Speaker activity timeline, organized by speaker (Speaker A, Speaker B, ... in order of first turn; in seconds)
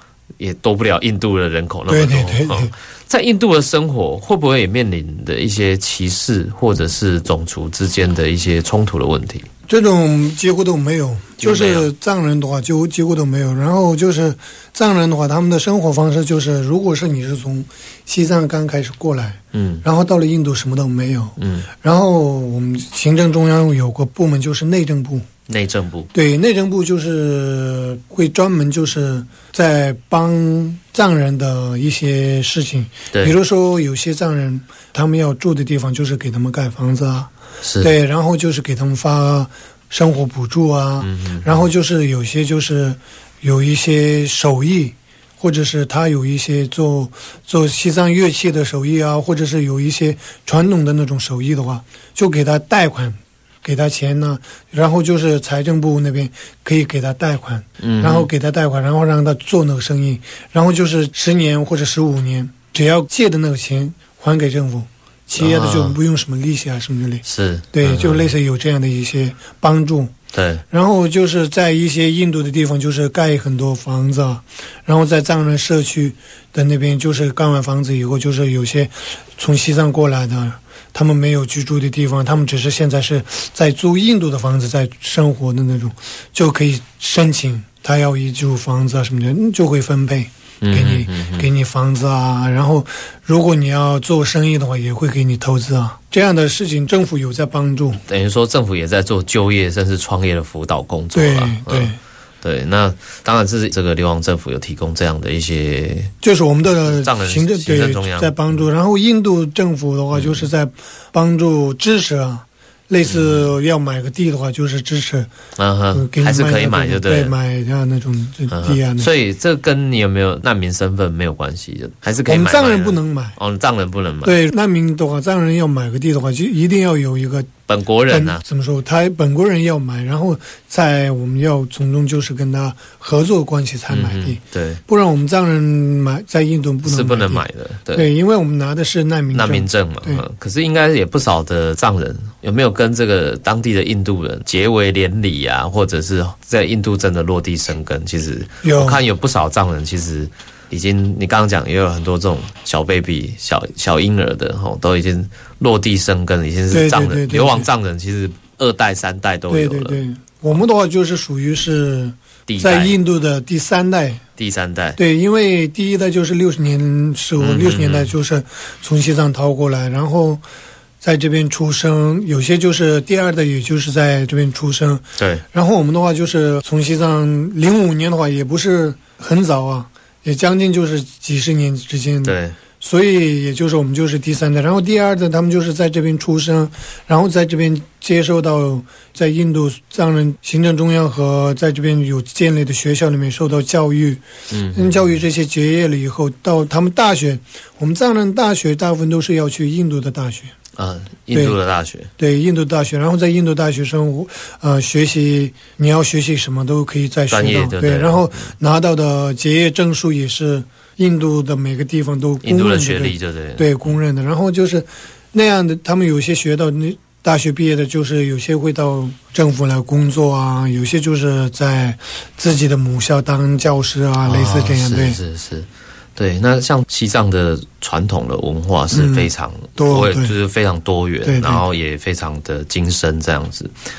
Speaker A: 0.4-9.5, 11.4-11.9, 19.5-19.8, 21.4-21.7, 25.5-26.1, 37.6-37.9, 41.0-41.6, 57.8-58.3, 65.4-66.0, 67.2-68.3, 70.3-70.6, 90.6-91.5, 98.1-106.1, 106.8-108.3, 110.1-110.5, 113.0-113.5, 115.6-117.3, 118.5-124.3, 127.7-128.4, 133.9-134.8, 136.8-138.1, 139.3-160.0, 162.5-163.0, 164.4-165.0, 167.4-168.1, 175.2-175.4, 182.2-182.6, 194.5-195.0, 200.8-202.1, 207.3-208.5, 212.4-213.7, 224.2-233.7
Speaker B: 1.9-2.7, 9.7-25.2, 26.1-70.1, 70.7-98.0, 101.1-102.0, 106.2-115.3, 115.9-119.1, 122.2-123.4, 124.2-127.5, 128.1-140.2, 148.6-149.0, 156.7-157.7, 159.5-164.2, 165.0-170.4, 171.0-200.5, 202.2-225.2, 228.9-230.3, 231.2-231.6